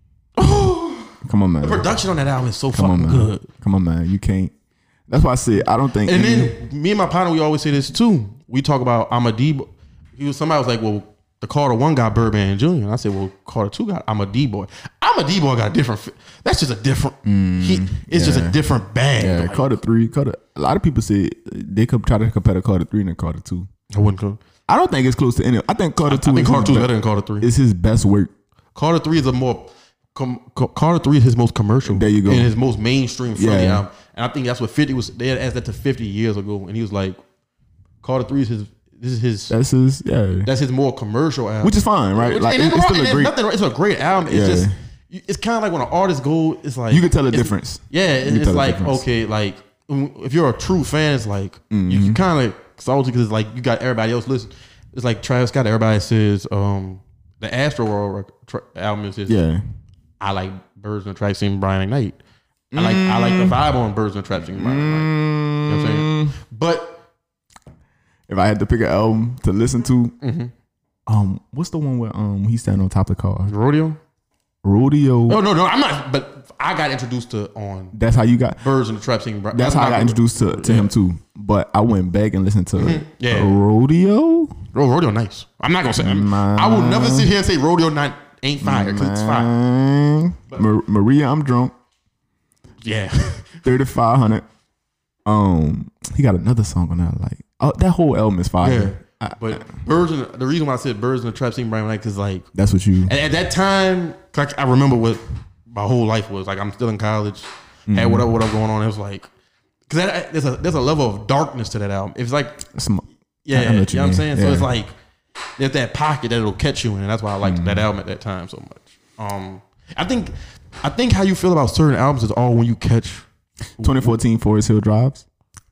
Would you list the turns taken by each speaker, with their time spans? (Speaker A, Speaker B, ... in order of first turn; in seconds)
Speaker A: 0.4-3.5, 6.0-19.8, 23.9-24.4, 26.1-27.5, 28.8-37.2, 38.0-39.6, 40.5-59.4, 60.2-62.2, 62.8-67.0, 70.2-70.5, 73.5-74.0, 75.3-78.0, 78.6-80.9, 82.8-83.6, 84.7-89.5, 92.8-93.6, 98.6-102.5, 103.1-109.3, 109.9-112.7, 113.5-114.9, 115.6-123.2, 123.8-124.2
Speaker B: 1.2-1.9, 2.7-4.5, 5.1-6.5, 17.2-18.6, 19.2-23.7, 24.7-28.3, 31.9-32.5, 33.3-33.9, 39.5-40.5, 41.6-43.4, 44.2-44.7, 46.9-49.0, 51.7-52.2, 59.3-59.6, 62.7-63.6, 64.5-66.4, 68.3-70.2, 71.1-73.5, 74.6-75.4, 77.9-78.7, 79.5-84.6, 86.0-87.3, 88.6-91.7, 93.6-94.5, 95.2-99.7, 102.5-103.1, 107.9-108.3, 112.7-114.7, 117.4-117.9, 123.8-125.2